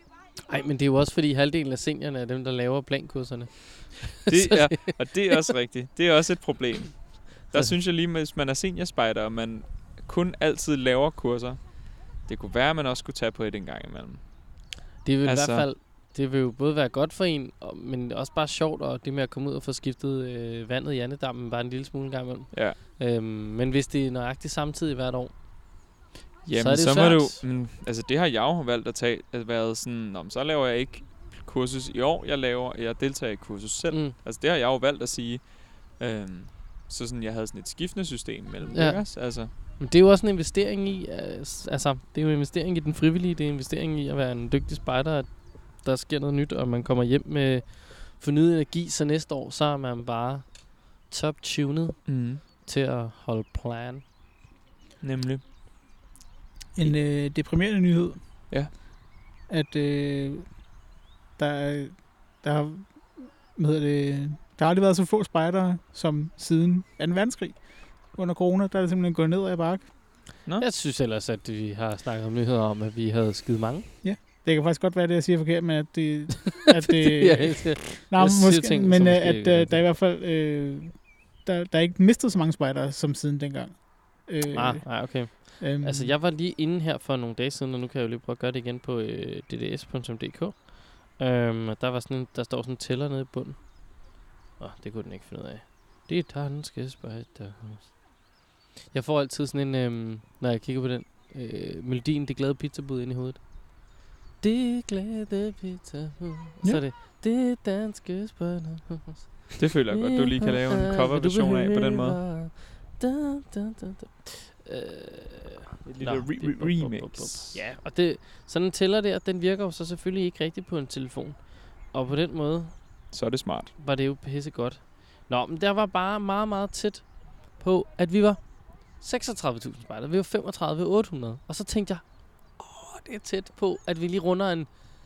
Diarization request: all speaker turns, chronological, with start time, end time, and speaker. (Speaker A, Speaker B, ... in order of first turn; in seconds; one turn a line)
Speaker A: 0.5-5.4
Speaker B: 4.2-11.6
Speaker B: 12.2-14.2
Speaker A: 15.0-25.3
Speaker B: 15.2-15.7
Speaker B: 22.5-22.8
Speaker B: 26.4-39.5
Speaker A: 26.5-27.4
Speaker A: 33.9-34.1
Speaker A: 38.7-54.0
Speaker B: 52.1-52.4
Speaker B: 55.0-55.4
Speaker C: 56.8-58.2
Speaker C: 59.5-60.5
Speaker C: 61.4-69.9
Speaker A: 70.6-73.9
Speaker C: 74.0-86.1
Speaker A: 76.7-79.8
Speaker A: 84.5-93.6
Speaker A: 94.6-98.0
Speaker A: 98.9-103.5
Speaker A: 104.4-122.7
Speaker B: 109.6-112.2
Speaker B: 115.8-117.6
Speaker B: 123.1-123.7
Speaker A: 123.8-127.0
Speaker A: 127.6-128.4
Speaker A: 129.0-132.0
Speaker A: 132.6-134.7